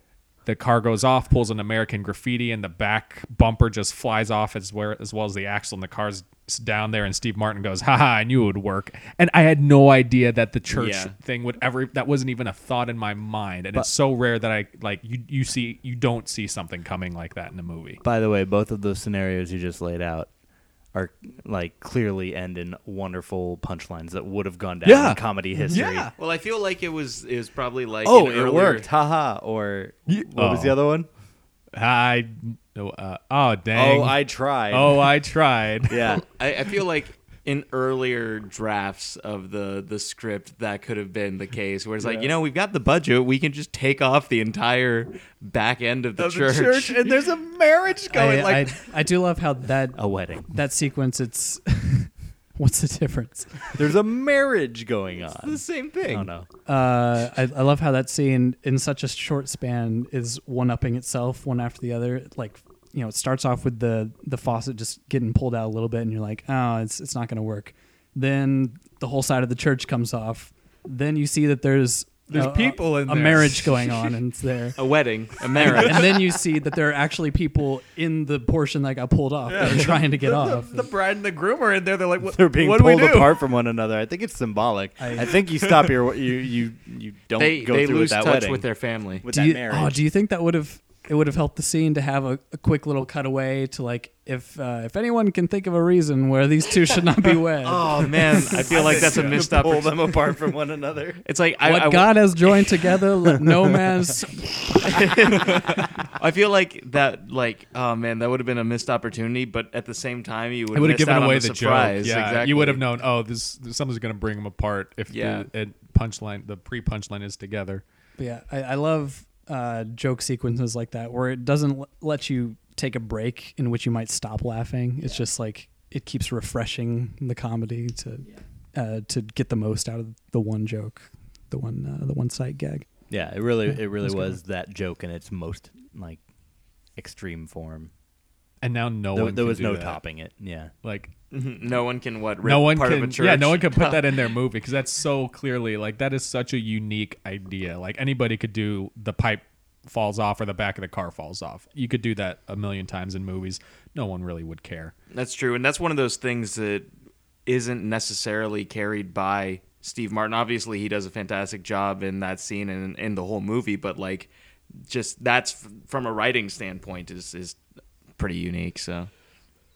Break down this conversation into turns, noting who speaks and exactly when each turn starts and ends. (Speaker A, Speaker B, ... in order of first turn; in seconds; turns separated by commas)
Speaker A: 0.5-18.0, Speaker B: 10.7-11.1, Speaker C: 18.0-20.3, Speaker C: 20.9-26.1, Speaker A: 24.8-26.1, Speaker B: 26.2-28.9, Speaker C: 28.0-31.1, Speaker A: 30.1-30.8, Speaker A: 31.7-36.0, Speaker C: 33.7-35.1, Speaker C: 35.9-36.2, Speaker B: 36.1-47.1, Speaker C: 42.0-42.3, Speaker A: 46.2-48.7, Speaker D: 48.1-53.8, Speaker C: 49.9-50.5, Speaker C: 53.7-56.5, Speaker B: 55.4-56.3, Speaker D: 56.6-74.8, Speaker A: 72.3-74.1, Speaker B: 74.8-76.2, Speaker D: 75.5-80.9, Speaker A: 79.5-83.4, Speaker C: 82.2-88.6, Speaker D: 85.0-85.3, Speaker B: 87.4-89.2, Speaker C: 89.2-90.0, Speaker D: 89.3-99.0, Speaker B: 97.6-100.3, Speaker C: 98.4-101.2, Speaker B: 101.2-102.6, Speaker D: 101.6-105.1, Speaker B: 104.8-112.8, Speaker A: 110.7-117.8, Speaker B: 115.1-115.5, Speaker D: 118.2-132.8, Speaker C: 133.1-136.2, Speaker D: 133.7-134.4, Speaker C: 136.9-137.9, Speaker A: 138.6-140.0, Speaker C: 139.1-140.7, Speaker A: 140.8-141.1, Speaker B: 141.3-144.2, Speaker A: 142.4-154.9, Speaker B: 155.1-156.9, Speaker B: 157.4-164.3, Speaker B: 164.8-167.6, Speaker B: 168.2-169.1